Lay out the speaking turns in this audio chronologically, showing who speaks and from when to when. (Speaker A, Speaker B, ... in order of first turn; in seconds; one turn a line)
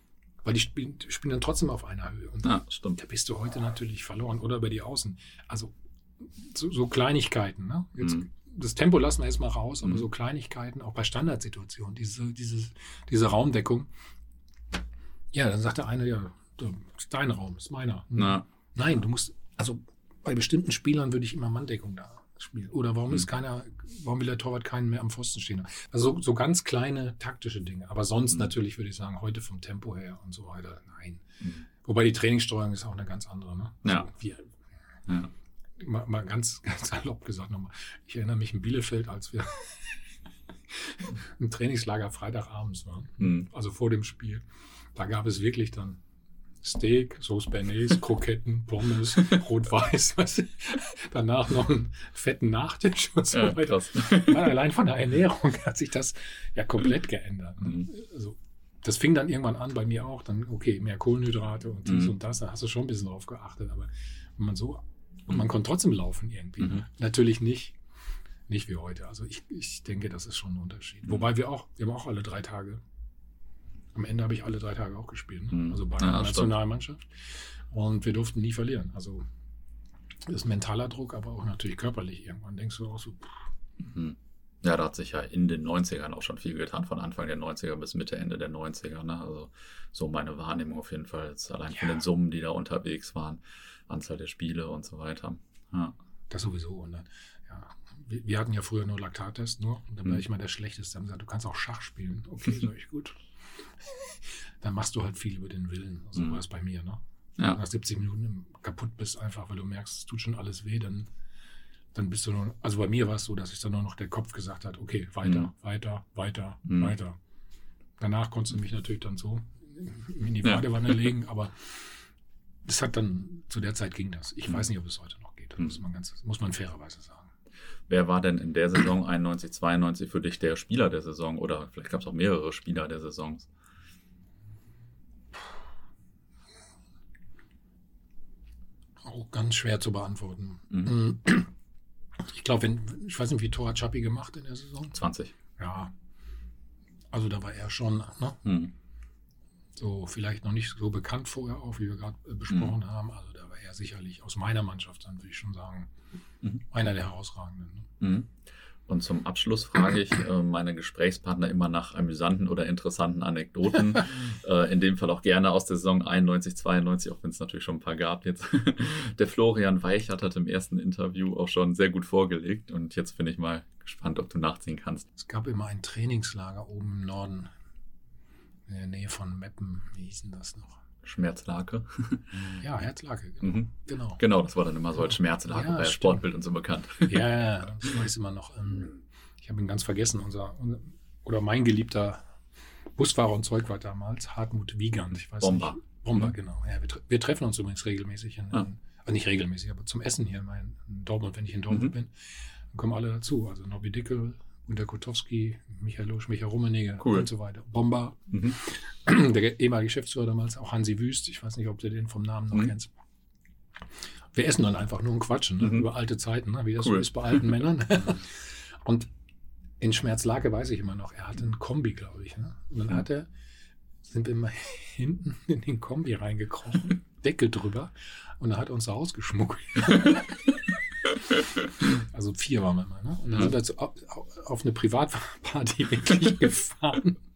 Speaker A: 0.4-13.9
Speaker B: 2.4-3.0
Speaker B: 8.0-8.2
Speaker A: 15.3-31.2
Speaker B: 18.1-18.4
Speaker A: 31.8-34.5
Speaker A: 35.8-40.0
Speaker A: 40.7-44.4
Speaker A: 44.9-46.0
Speaker A: 46.6-67.8
Speaker B: 53.3-54.5
Speaker A: 68.5-72.8
Speaker A: 73.9-79.3
Speaker B: 75.5-76.6
Speaker A: 80.3-83.4
Speaker B: 83.9-95.9
Speaker A: 96.3-103.2
Speaker A: 103.8-111.1
Speaker A: 111.9-117.2
Speaker B: 116.7-116.9
Speaker A: 118.0-122.0
Speaker A: 122.7-127.3
Speaker B: 127.9-133.5
Speaker A: 139.0-141.5
Speaker A: 142.2-145.0
Speaker B: 144.9-145.3
Speaker A: 145.6-145.9
Speaker A: 147.1-148.5
Speaker B: 148.4-148.7
Speaker A: 149.8-155.9
Speaker A: 156.7-157.9
Speaker B: 158.0-158.3
Speaker B: 158.9-175.1
Speaker A: 175.2-177.5
Speaker A: 178.7-180.8
Speaker B: 181.0-182.6
Speaker A: 182.6-184.2
Speaker B: 183.4-187.3
Speaker A: 185.5-186.2
Speaker A: 187.0-192.2
Speaker A: 193.0-212.9
Speaker B: 195.4-196.2
Speaker B: 207.0-207.3
Speaker A: 214.3-219.1
Speaker B: 215.6-215.9
Speaker B: 216.8-217.4
Speaker A: 219.8-223.3
Speaker A: 224.1-230.6
Speaker A: 231.8-237.2